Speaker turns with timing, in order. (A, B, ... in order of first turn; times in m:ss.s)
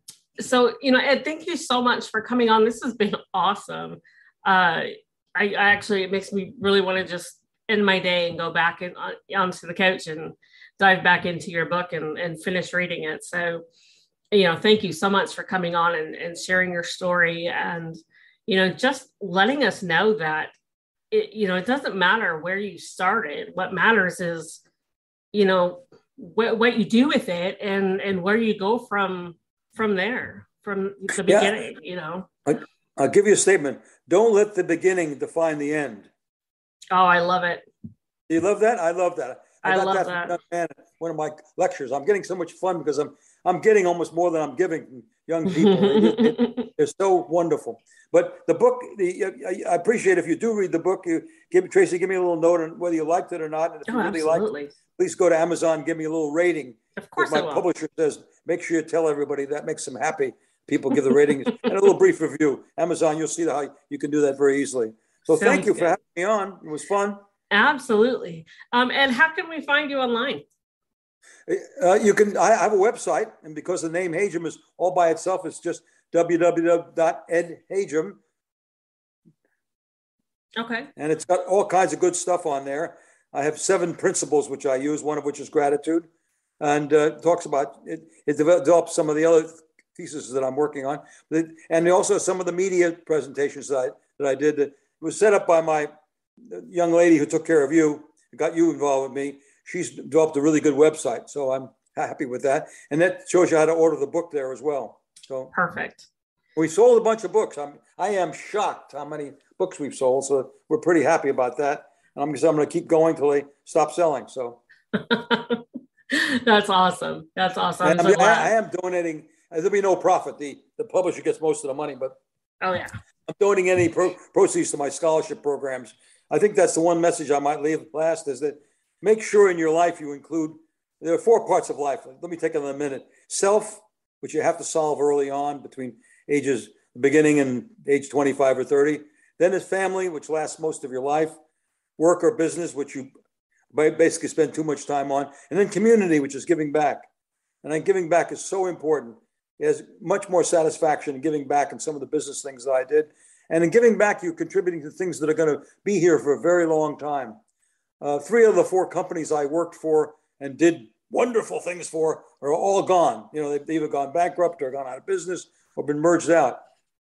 0:00.4-0:13.6 A
0:14.3-0:20.6 A
0:21.1-0:24.6 A
0:25.3-0:32.3 A
0:31.2-0:31.6 B
0:32.5-0:36.1 B
0:36.9-0:37.7 A
0:38.3-1:07.2 B
0:39.6-0:40.4 A
0:45.5-0:46.7 A
0:53.9-0:54.7 A
0:57.0-0:57.6 A
1:01.1-1:01.7 A
1:05.3-1:06.0 A
1:07.5-1:10.4 A
1:11.5-1:18.2 B
1:20.6-1:20.9 A
1:21.0-1:26.1 B
1:26.6-1:35.9 B
1:36.4-1:45.5 B
1:45.5-1:46.1 A
1:46.6-1:54.6 B
1:54.9-1:58.5 A
1:57.8-2:02.2 B
2:02.6-2:02.9 A
2:03.3-2:21.4 B
2:22.0-2:23.1 B
2:23.7-2:27.1 B
2:27.6-2:37.4 B
2:38.0-2:46.6 B